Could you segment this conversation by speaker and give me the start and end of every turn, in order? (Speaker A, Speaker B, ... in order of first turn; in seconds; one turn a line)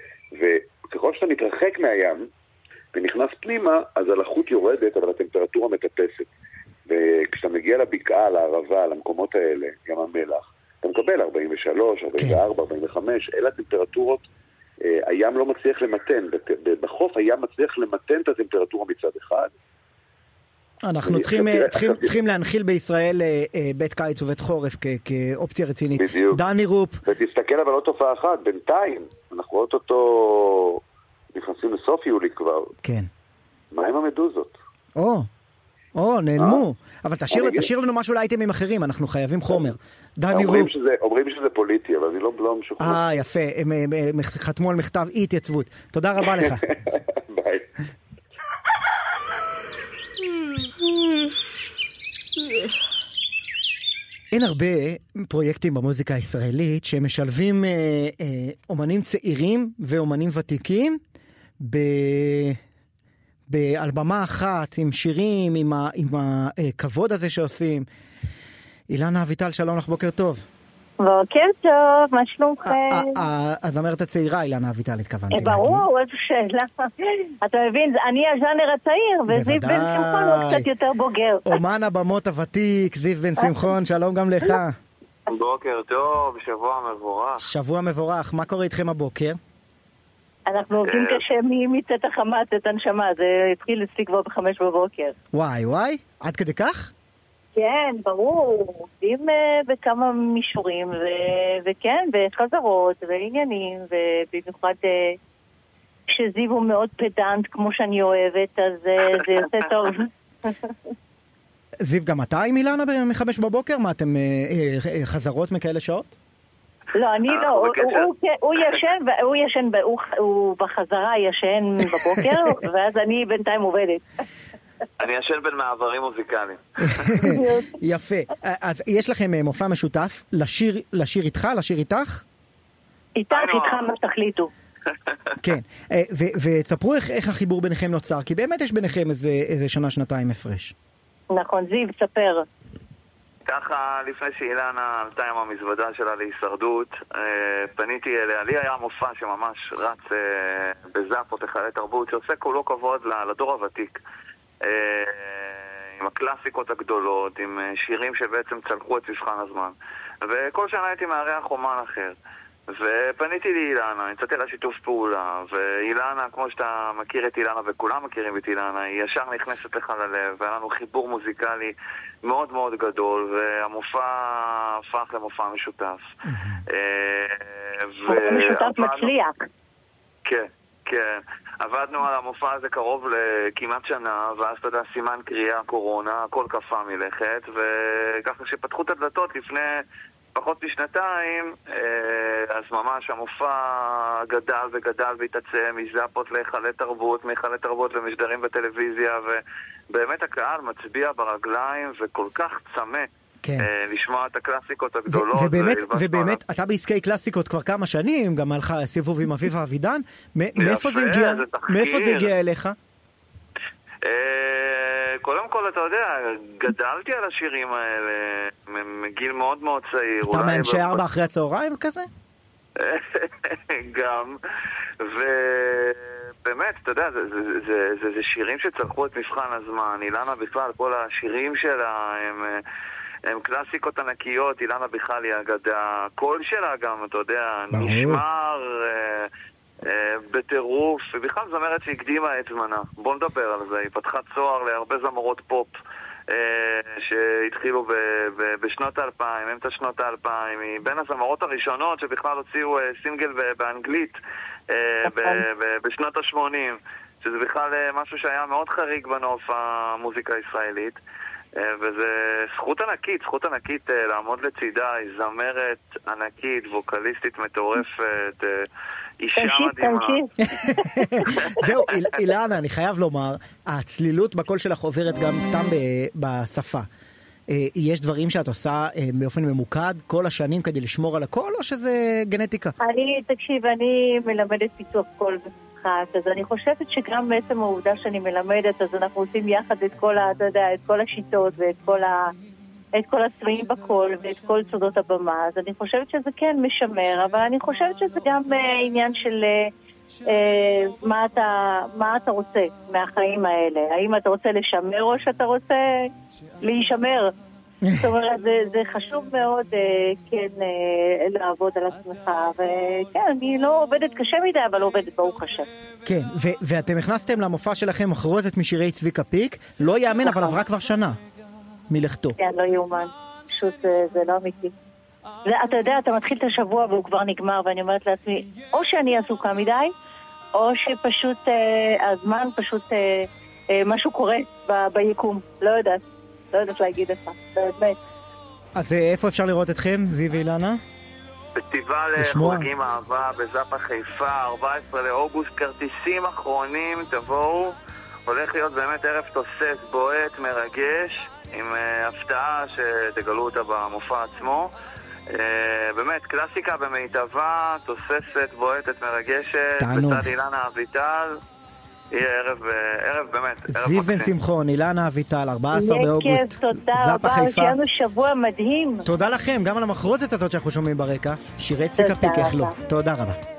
Speaker A: 0.3-2.3
Speaker A: 2.9-6.3
Speaker A: 6.9-14.2
Speaker A: 14.8-19.5
Speaker B: 20.8-27.0
Speaker A: 21.1-22.1
Speaker A: 26.0-26.4
Speaker A: 27.1-30.8
Speaker A: 31.3-32.7
Speaker B: 32.8-33.1
Speaker A: 33.7-34.5
Speaker B: 35.0-35.3
Speaker B: 36.0-40.7
Speaker A: 36.4-36.6
Speaker A: 37.3-37.7
Speaker A: 40.3-43.0
Speaker B: 42.8-46.6
Speaker A: 46.4-47.7
Speaker B: 54.3-61.0
Speaker B: 61.6-62.6
Speaker B: 63.5-67.9
Speaker B: 68.9-70.4
Speaker C: 71.0-73.2
Speaker B: 72.7-75.8
Speaker C: 75.3-81.6
Speaker B: 79.3-80.7
Speaker B: 81.5-84.8
Speaker D: 85.3-87.5
Speaker B: 87.4-89.4
Speaker C: 90.5-95.2
Speaker D: 90.9-91.2
Speaker B: 95.3-96.9
Speaker C: 97.6-105.2
Speaker C: 106.1-110.6
Speaker B: 111.8-116.2
Speaker C: 116.9-124.0
Speaker D: 117.3-118.1
Speaker D: 125.0-127.3
Speaker B: 126.9-132.2
Speaker C: 127.2-127.7
Speaker C: 133.2-134.5
Speaker D: 133.3-133.9
Speaker B: 135.4-140.7
Speaker C: 141.3-142.4
Speaker D: 143.5-154.0
Speaker D: 154.7-162.2
Speaker D: 162.7-171.7
Speaker D: 172.2-176.1
Speaker B: 176.3-176.6
Speaker D: 176.7-179.1
Speaker C: 178.1-179.5
Speaker D: 180.2-189.7
Speaker D: 190.4-199.4
Speaker D: 199.9-203.1
Speaker B: 203.4-203.7
Speaker D: 203.6-206.4
Speaker B: 205.1-212.8
Speaker D: 210.6-212.3
Speaker D: 214.0-221.0
Speaker B: 220.2-222.1
Speaker D: 222.8-224.4
Speaker D: 225.0-232.6
Speaker D: 233.3-239.3
Speaker B: 237.7-238.2
Speaker D: 239.9-245.7
Speaker D: 246.3-254.2
Speaker D: 254.7-261.0
Speaker C: 255.1-255.4
Speaker D: 261.6-268.6
Speaker D: 269.2-270.2
Speaker C: 269.4-271.7
Speaker B: 270.4-276.9
Speaker B: 277.5-282.7
Speaker C: 282.8-292.3
Speaker C: 292.9-299.7
Speaker C: 300.2-306.1
Speaker C: 306.6-307.3
Speaker B: 307.8-308.1
Speaker C: 307.9-315.7
Speaker B: 316.1-321.2
Speaker C: 320.2-320.6
Speaker B: 321.9-322.4
Speaker C: 322.4-324.7
Speaker C: 325.4-329.9
Speaker C: 330.5-338.0
Speaker B: 338.8-340.8
Speaker D: 341.6-354.7
Speaker B: 342.2-342.7
Speaker D: 355.3-361.4
Speaker B: 359.8-360.3
Speaker D: 362.1-364.3
Speaker B: 363.7-367.8
Speaker C: 365.7-369.1
Speaker B: 369.0-373.4
Speaker C: 372.0-372.8